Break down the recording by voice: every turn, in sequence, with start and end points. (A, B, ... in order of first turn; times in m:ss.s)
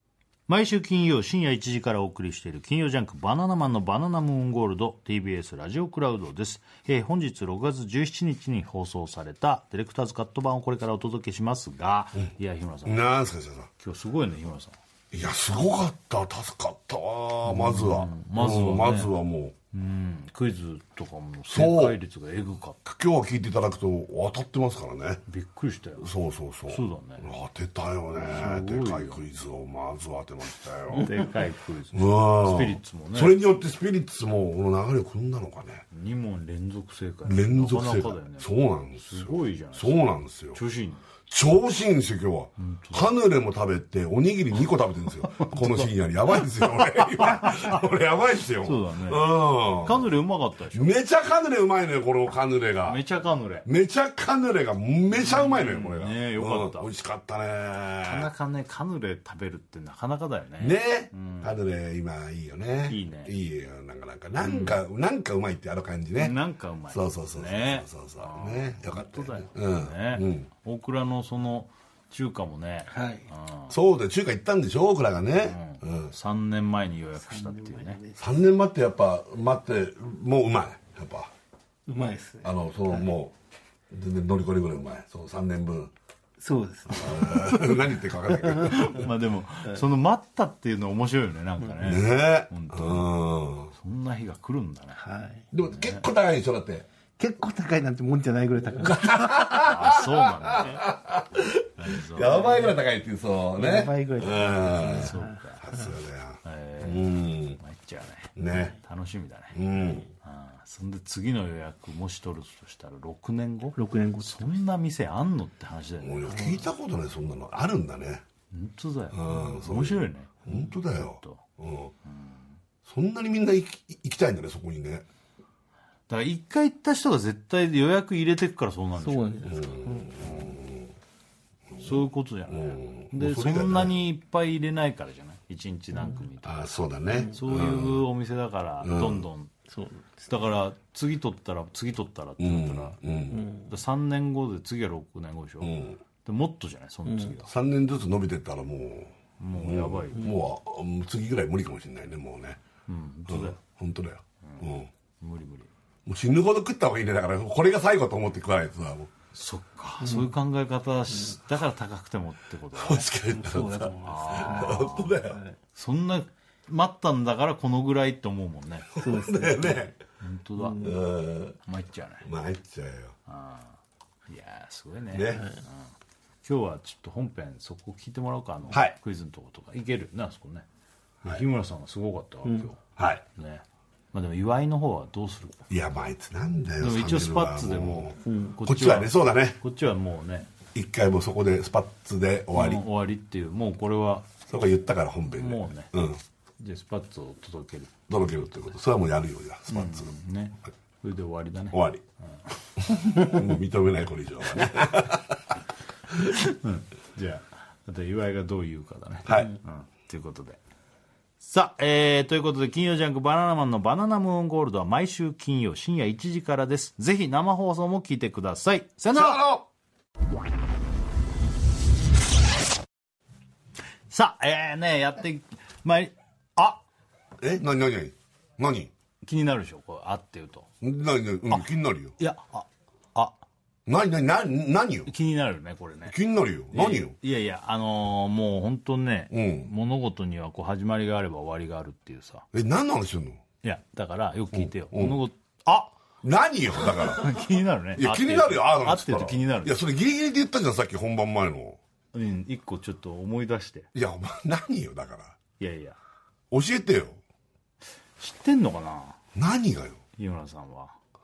0:00.5-0:13.0 A
0:12.8-0:13.7 B
0:13.8-0:14.8 A
0:15.1-0:19.5 B
0:17.4-0:19.1 A
0:19.7-0:22.8 A
0:21.5-0:22.0 B
0:22.8-0:25.2 B
0:25.3-0:26.0 A
0:26.0-0:31.1 B
0:26.7-0:27.3 A
0:28.2-0:29.2 A
0:31.0-0:33.4 A
0:31.9-0:35.8 B
0:35.9-0:40.0 A
0:37.2-0:40.6 B
0:40.5-0:41.0 A
0:41.3-0:50.1 B
0:42.6-0:43.1 A
0:45.3-0:45.9 A
0:47.0-0:47.8 A
0:48.6-0:49.3 A
0:49.8-0:50.9 A
0:50.7-0:53.0 B
0:52.8-0:53.6 A
0:53.6-0:58.3 B
0:55.1-0:56.9 A
0:58.0-1:01.5 A
1:00.6-1:06.4 B
1:02.9-1:03.3 A
1:04.4-1:04.8 A
1:06.2-1:13.7 A
1:06.9-1:10.5 B
1:12.9-1:13.2 C
1:13.7-1:16.1 B
1:15.4-1:18.0 A
1:17.3-1:18.2 C
1:18.2-1:21.3 B
1:21.9-1:23.0 C
1:22.4-1:23.3 B
1:23.9-1:25.9 B
1:26.4-1:29.0 C
1:26.9-1:29.1 B
1:28.7-1:33.1 A
1:31.8-1:33.7 B
1:33.7-1:35.0 A
1:35.0-1:35.4 C
1:35.5-1:36.8 B
1:35.8-1:36.0 A
1:37.2-1:39.6 C
1:38.8-1:47.6 B
1:39.5-1:40.8 A
1:41.8-1:42.4 A
1:42.2-1:42.7 C
1:43.6-1:45.8 C
1:44.9-1:45.6 A
1:46.4-1:49.6 A
1:48.4-1:48.7 B
1:49.5-1:50.1 B
1:50.2-1:56.5 A
1:53.8-1:54.5 C
1:56.0-1:58.2 B
1:56.3-1:56.6 C
1:58.5-2:00.3 A
1:59.1-2:01.9 B
2:01.0-2:01.4 A
2:02.8-2:05.0 B
2:06.1-2:09.4 A
2:09.0-2:10.1 C
2:09.4-2:10.9 B
2:11.8-2:19.5 A
2:12.5-2:13.9 B
2:16.4-2:18.0 B
2:17.1-2:17.4 C
2:18.8-2:19.2 B
2:19.7-2:20.2 C
2:20.3-2:23.0 A
2:22.4-2:23.5 B
2:23.3-2:23.7 C
2:23.5-2:27.5 A
2:25.6-2:26.0 B
2:27.0-2:27.3 C
2:27.4-2:32.6 B
2:29.4-2:30.2 A
2:32.9-2:33.6 A
2:33.3-2:34.9 B
2:35.2-2:35.7 A
2:36.0-2:39.1 B
2:39.3-2:43.1 A
2:40.0-2:40.2 C
2:42.7-2:45.4 B
2:43.3-2:45.6 C
2:44.0-2:45.1 A
2:45.7-2:49.0 A
2:49.0-2:49.9 B
2:49.0-2:49.9 C
2:50.2-2:50.9 A
2:50.6-2:51.0 C
2:50.8-2:51.6 B
2:51.6-2:52.3 A
2:52.2-2:53.2 B
2:53.3-2:55.9 A
2:55.1-2:55.4 B
2:56.4-3:00.6 A
2:58.7-2:58.9 B
3:01.2-3:02.8 A
3:03.0-3:03.2 B
3:03.3-3:05.6 A
3:05.7-3:09.6 B
3:06.8-3:10.5 A
3:08.2-3:08.5 C
3:10.7-3:12.8 B
3:12.5-3:14.3 A
3:14.5-3:16.2 B
3:15.4-3:15.9 A
3:16.6-3:17.9 A
3:18.1-3:20.1 B
3:19.7-3:22.3 A
3:21.7-3:22.0 B
3:23.0-3:25.4 B
3:26.2-3:30.6 A
3:29.2-3:29.5 B
3:31.4-3:39.4 A
3:39.1-3:39.6 B
3:44.1-3:46.8 A
3:47.4-3:48.9 B
3:49.2-3:50.7 A
3:50.8-3:52.2 B
3:52.2-3:53.3 A
3:53.8-3:55.1 B
3:55.1-3:56.2 A
3:56.1-3:57.1 B
3:56.7-4:02.4 A
3:59.3-3:59.7 B
4:02.5-4:03.4 B
4:03.6-4:05.9 A
4:04.5-4:05.2 B
4:06.2-4:07.4 B
4:06.8-4:09.8 A
4:08.0-4:11.8 B
4:12.1-4:13.9 A
4:13.9-4:15.4 B
4:15.6-4:16.0 A
4:16.5-4:17.2 B
4:18.2-4:19.2 A
4:19.3-4:20.0 B
4:20.2-4:21.0 A